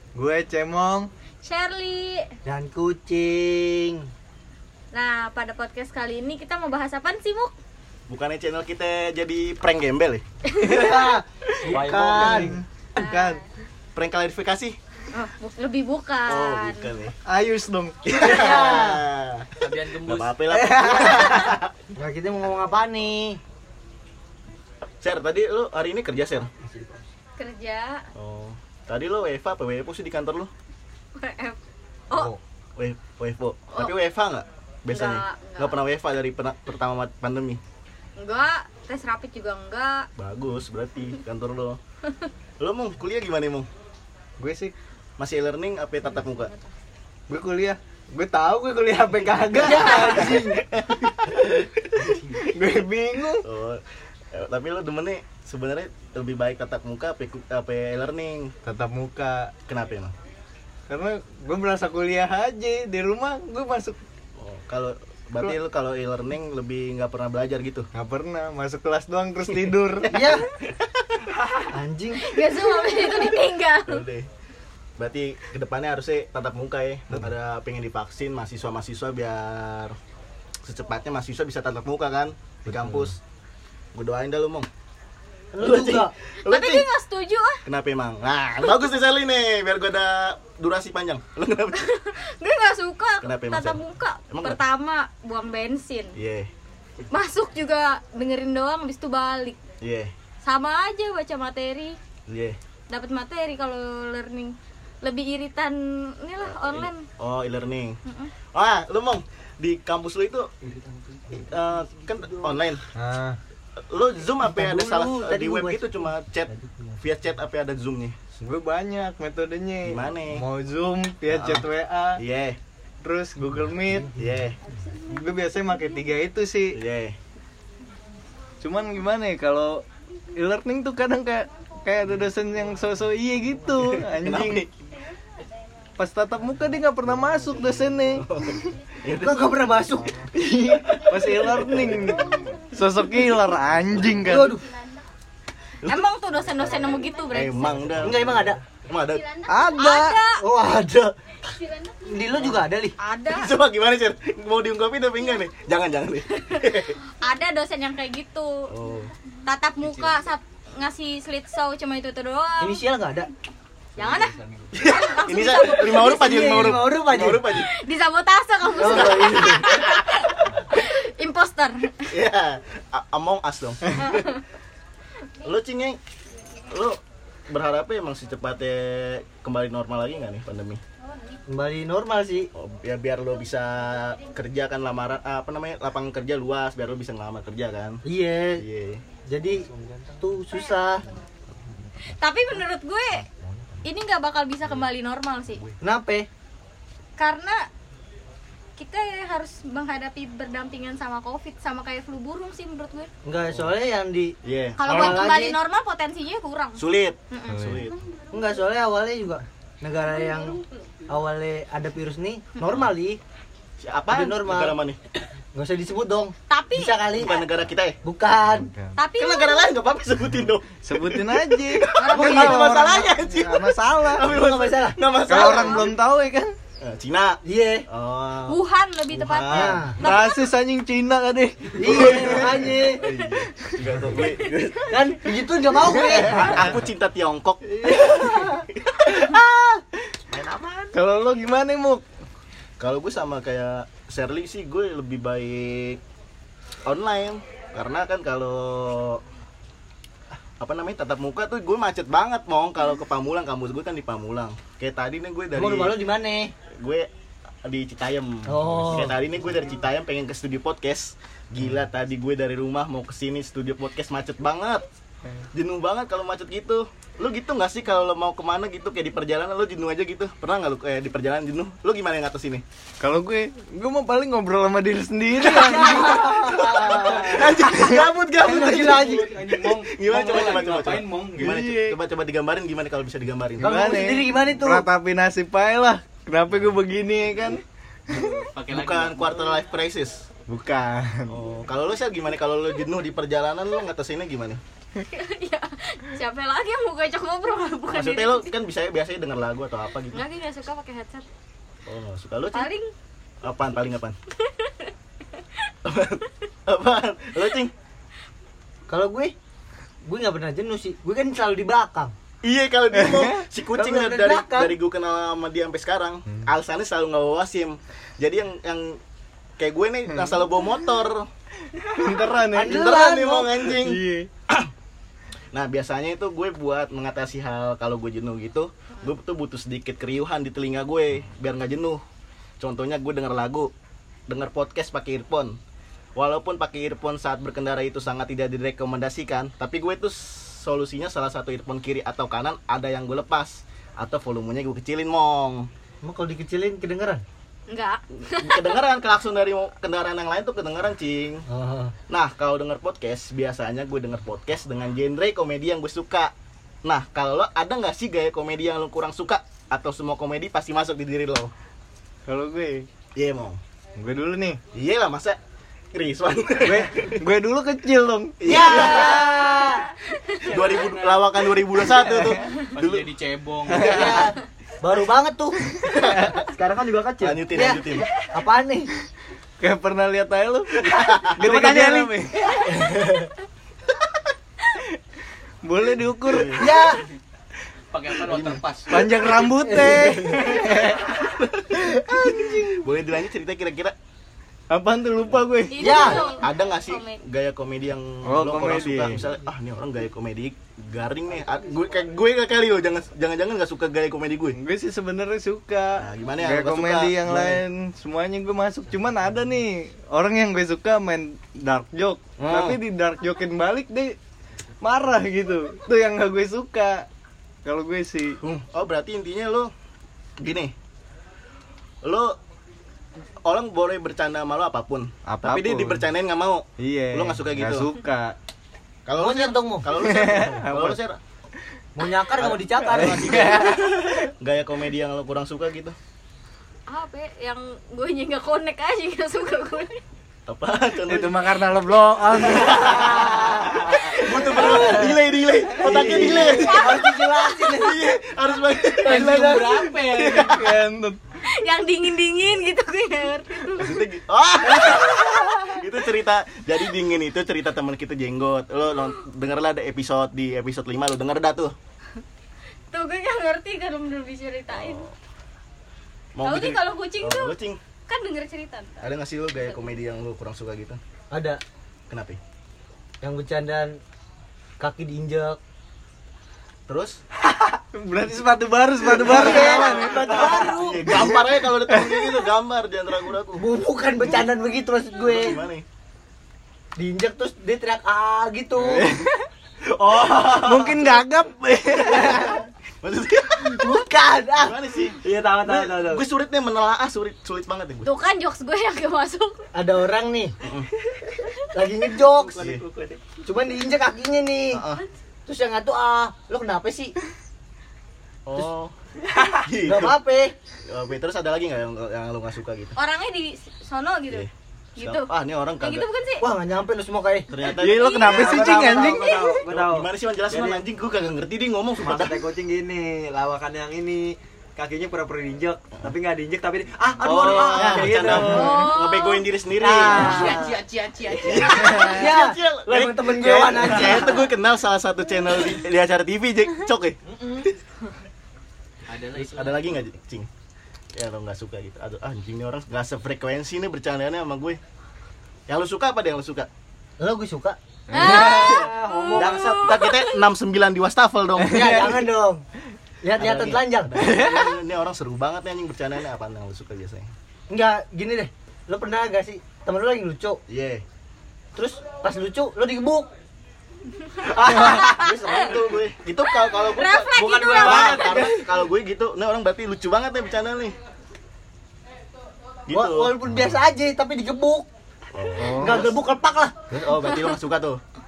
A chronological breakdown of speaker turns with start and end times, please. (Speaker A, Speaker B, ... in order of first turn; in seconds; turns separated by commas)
Speaker A: 0.1-1.1, Speaker B: 1.4-2.3, Speaker C: 2.4-4.1, Speaker B: 4.9-7.5, Speaker D: 8.1-10.2, Speaker C: 10.6-12.6, Speaker A: 11.6-13.4, Speaker E: 11.7-12.6, Speaker B: 12.9-13.4, Speaker D: 13.9-14.8, Speaker B: 15.1-16.9, Speaker D: 16.3-17.2, Speaker A: 17.2-18.8, Speaker D: 18.0-21.7, Speaker C: 18.2-19.0, Speaker F: 19.6-20.6, Speaker C: 20.5-23.4, Speaker D: 25.0-26.5, Speaker B: 27.4-28.1, Speaker D: 28.1-30.5, Speaker B: 31.1-31.6, Speaker B: 32.1-32.4, Speaker D: 32.8-37.6, Speaker B: 34.9-35.8, Speaker B: 38.2-40.1, Speaker D: 40.2-41.8, Speaker D: 42.6-43.7, Speaker A: 44.4-44.7, Speaker D: 45.2-46.5, Speaker A: 47.3-50.5, Speaker C: 49.5-50.6, Speaker D: 49.9-52.3, Speaker A: 52.3-53.5, Speaker D: 53.4-53.8, Speaker D: 54.3-58.5, Speaker A: 58.6-59.5, Speaker D: 59.7-60.1, Speaker A: 60.9-64.0, Speaker D: 64.4-67.9, Speaker A: 67.9-70.4, Speaker C: 70.1-70.5, Speaker C: 71.7-72.4, Speaker B: 72.2-74.0, Speaker D: 73.8-74.3, Speaker D: 75.0-80.0, Speaker D: 80.7-83.2, Speaker A: 82.7-83.1, Speaker D: 83.9-84.7, Speaker C: 85.5-86.1, Speaker D: 85.6-86.9, Speaker B: 86.4-87.6, Speaker D: 87.6-91.9, Speaker B: 91.7-96.1, Speaker D: 93.2-94.6, Speaker D: 96.2-96.5, Speaker B: 97.1-99.6, Speaker D: 99.8-100.1, Speaker B: 100.4-102.0, Speaker D: 102.3-102.6, Speaker B: 102.9-107.0, Speaker D: 106.4-108.0, Speaker B: 108.0-108.3, Speaker D: 108.5-110.5, Speaker D: 111.3-112.8, Speaker A: 112.9-113.4, Speaker D: 113.8-118.2, Speaker C: 114.4-116.0, Speaker A: 118.4-122.2, Speaker D: 119.8-120.5, Speaker D: 121.3-122.6, Speaker A: 123.0-124.2, Speaker D: 124.1-124.6, Speaker A: 125.0-126.8, Speaker D: 126.7-127.2, Speaker A: 128.6-129.8, Speaker A: 130.3-134.7, Speaker D: 133.8-134.7, Speaker A: 136.0-138.7, Speaker D: 138.1-139.7, Speaker C: 139.1-140.2, Speaker A: 140.3-144.6, Speaker D: 140.8-142.4, Speaker C: 144.2-144.6, Speaker B: 145.9-147.9, Speaker D: 147.3-149.4, Speaker C: 148.0-148.6, Speaker A: 149.5-150.2, Speaker B: 149.7-150.4, Speaker C: 150.2-151.1, Speaker C: 152.0-152.9, Speaker B: 153.0-153.5, Speaker D: 153.3-157.0, Speaker B: 157.2-158.7, Speaker D: 158.7-159.1, Speaker B: 159.4-162.8, Speaker C: 162.6-163.3, Speaker B: 164.0-166.5, Speaker D: 164.7-167.7, Speaker C: 166.0-167.6, Speaker B: 167.6-172.1, Speaker C: 168.7-169.7, Speaker D: 168.8-170.1, Speaker D: 172.1-174.3, Speaker B: 174.0-174.4, Speaker D: 175.4-176.0, Speaker D: 176.7-180.8, Speaker C: 181.5-182.5, Speaker D: 182.5-188.0, Speaker C: 188.0-188.6, Speaker D: 188.6-189.0, Speaker C: 189.2-191.0, Speaker B: 192.1-193.3, Speaker B: 193.8-195.6, Speaker C: 195.8-196.3, Speaker B: 197.2-197.7, Speaker B: 198.8-203.1, Speaker C: 203.2-205.6, Speaker D: 204.4-205.2, Speaker B: 204.8-207.8, Speaker D: 206.8-208.0, Speaker A: 207.5-207.8, Speaker C: 208.3-213.2, Speaker D: 213.8-215.0, Speaker C: 214.1-214.8, Speaker C: 215.5-217.4, Speaker B: 216.5-217.0, Speaker D: 217.2-218.0, Speaker C: 218.0-218.7, Speaker A: 218.5-219.0, Speaker B: 218.9-219.7, Speaker D: 219.2-225.9, Speaker A: 220.8-224.3, Speaker B: 221.9-222.8, Speaker C: 222.1-223.1, Speaker C: 224.2-225.0, Speaker A: 225.2-226.5, Speaker B: 225.3-225.8, Speaker D: 226.8-229.9, Speaker C: 227.4-227.8, Speaker B: 228.5-230.6, Speaker C: 229.5-230.0, Speaker A: 230.0-232.6, Speaker C: 231.8-233.0, Speaker D: 231.9-235.0, Speaker C: 234.9-236.7, Speaker D: 235.9-239.2, Speaker C: 237.7-238.6, Speaker D: 240.3-241.0, Speaker A: 240.9-242.0, Speaker D: 242.8-246.0, Speaker D: 246.8-249.2, Speaker D: 250.6-256.0, Speaker C: 255.5-256.5, Speaker D: 256.7-257.1, Speaker D: 257.6-264.8, Speaker C: 258.4-259.1, Speaker D: 265.5-272.6, Speaker A: 273.0-276.8, Speaker C: 275.4-277.5, Speaker D: 276.1-284.0, Speaker F: 276.9-277.4, Speaker A: 277.6-278.1, Speaker C: 278.4-279.3, Speaker F: 278.5-281.6, Speaker A: 281.4-282.0, Speaker A: 283.6-288.4, Speaker C: 283.6-284.9, Speaker F: 288.1-289.6, Speaker D: 288.7-290.3, Speaker A: 290.5-291.4, Speaker D: 291.3-294.6, Speaker B: 295.0-298.5, Speaker D: 297.9-300.2, Speaker B: 300.1-301.2, Speaker D: 301.9-302.7, Speaker B: 302.5-302.9, Speaker D: 303.4-304.1, Speaker B: 304.4-304.9, Speaker D: 305.8-307.7, Speaker C: 308.9-309.3, Speaker C: 310.0-312.1, Speaker D: 312.4-319.0, Speaker A: 312.9-313.4, Speaker C: 313.7-314.8, Speaker D: 319.6-321.3, Speaker A: 320.1-320.4, Speaker A: 321.8-322.8, Speaker C: 322.5-323.5, Speaker D: 322.6-324.7, Speaker A: 323.6-324.3, Speaker D: 325.5-332.0, Speaker D: 332.6-333.7, Speaker D: 334.3-335.6, Speaker D: 336.1-345.7, Speaker C: 346.0-347.2, Speaker B: 347.7-348.8, Speaker D: 348.1-351.4, Speaker C: 351.5-351.9, Speaker D: 352.1-356.3, Speaker D: 356.8-361.5, Speaker A: 362.3-362.9, Speaker D: 363.1-363.6, Speaker A: 364.0-364.6, Speaker D: 364.7-365.4, Speaker D: 365.9-367.2, Speaker A: 366.6-368.5, Speaker D: 368.4-369.3, Speaker C: 368.4-369.9, Speaker D: 370.4-373.1, Speaker F: 370.4-371.3, Speaker A: 372.0-372.3, Speaker F: 372.2-374.3, Speaker C: 373.7-375.7, Speaker D: 375.9-376.4, Speaker A: 375.9-376.3, Speaker E: 376.4-377.7, Speaker D: 377.2-378.1, Speaker C: 377.5-378.9, Speaker A: 379.6-382.6, Speaker D: 380.8-382.1, Speaker C: 382.6-383.3, Speaker A: 385.6-386.8, Speaker D: 386.3-386.7, Speaker C: 386.5-387.0, Speaker F: 387.9-389.3, Speaker A: 388.9-391.2, Speaker C: 389.6-390.3, Speaker D: 390.1-393.9, Speaker A: 391.8-392.5, Speaker A: 394.7-396.2, Speaker B: 395.7-397.2, Speaker C: 395.8-396.4, Speaker D: 395.9-404.6, Speaker A: 398.2-399.2, Speaker A: 404.5-414.1, Speaker D: 406.0-407.6, Speaker D: 412.4-412.8, Speaker A: 414.8-417.1, Speaker A: 417.6-418.4, Speaker D: 418.4-419.7, Speaker D: 420.4-420.7, Speaker D: 422.0-422.4, Speaker D: 423.4-427.9, Speaker A: 425.2-426.1, Speaker A: 426.8-428.4, Speaker D: 429.1-431.2, Speaker C: 429.1-429.9, Speaker A: 429.9-431.0, Speaker C: 431.9-433.6, Speaker D: 432.4-435.9, Speaker A: 432.8-434.3, Speaker B: 436.9-440.0, Speaker D: 440.5-441.5, Speaker A: 441.1-443.9, Speaker D: 442.4-447.0, Speaker C: 442.9-443.8, Speaker C: 444.3-445.2, Speaker A: 444.6-445.1, Speaker C: 445.8-448.1, Speaker A: 445.9-446.2, Speaker B: 446.4-447.2, Speaker D: 447.7-450.8, Speaker F: 449.0-450.6, Speaker C: 449.1-449.8, Speaker A: 450.3-451.2, Speaker B: 451.4-454.1, Speaker D: 453.7-461.7, Speaker B: 462.9-465.0, Speaker D: 464.7-465.1, Speaker D: 466.3-467.8, Speaker B: 466.4-467.6, Speaker B: 468.1-469.1, Speaker D: 469.0-471.0, Speaker C: 471.3-471.6, Speaker D: 472.1-472.4, Speaker C: 473.2-474.0, Speaker C: 474.8-475.6, Speaker D: 476.9-477.2, Speaker A: 477.9-480.4, Speaker C: 479.2-481.2, Speaker E: 479.2-481.0, Speaker D: 479.2-483.7, Speaker A: 481.9-482.4, Speaker C: 483.6-485.6, Speaker D: 485.2-485.8, Speaker C: 486.9-489.1, Speaker A: 488.8-489.5, Speaker E: 489.8-491.1, Speaker A: 490.5-492.6, Speaker C: 492.1-492.6, Speaker D: 493.0-493.9, Speaker C: 493.6-494.8, Speaker D: 494.6-498.1, Speaker E: 495.2-496.2, Speaker B: 498.0-499.6, Speaker C: 499.7-500.6, Speaker D: 500.6-500.9, Speaker C: 501.7-502.6, Speaker E: 502.2-503.2, Speaker D: 502.6-502.8, Speaker C: 503.4-504.8, Speaker D: 504.7-505.0, Speaker C: 505.5-507.1, Speaker D: 508.4-508.9, Speaker D: 509.6-510.2, Speaker C: 509.8-510.5, Speaker D: 510.9-513.0, Speaker B: 513.0-516.5, Speaker D: 514.3-516.1, Speaker C: 516.4-517.5, Speaker D: 517.5-522.4, Speaker B: 517.7-519.6, Speaker A: 517.8-519.5, Speaker E: 518.2-520.8, Speaker E: 522.0-528.8, Speaker D: 527.2-530.6, Speaker B: 528.3-529.5, Speaker C: 529.8-530.8, Speaker E: 529.8-530.4, Speaker F: 530.0-532.0, Speaker D: 531.4-537.2, Speaker C: 531.9-534.5, Speaker F: 539.1-539.9, Speaker D: 539.4-540.5, Speaker D: 541.1-544.8, Speaker D: 545.7-546.7, Speaker C: 547.2-547.8, Speaker A: 548.1-548.9, Speaker B: 548.1-550.4, Speaker D: 548.1-552.2, Speaker E: 548.6-549.6, Speaker A: 551.6-552.2, Speaker C: 551.7-552.6, Speaker C: 553.2-554.1, Speaker D: 553.4-557.3, Speaker A: 554.1-554.7, Speaker C: 557.7-560.6, Speaker D: 560.7-561.0, Speaker C: 561.7-563.3, Speaker D: 564.5-571.0, Speaker E: 564.5-565.2, Speaker B: 564.7-565.5, Speaker B: 566.6-568.4, Speaker E: 567.7-568.5, Speaker D: 572.9-573.4, Speaker C: 572.9-574.9, Speaker D: 575.3-576.2, Speaker A: 575.6-576.1, Speaker C: 575.8-576.8, Speaker D: 576.9-578.0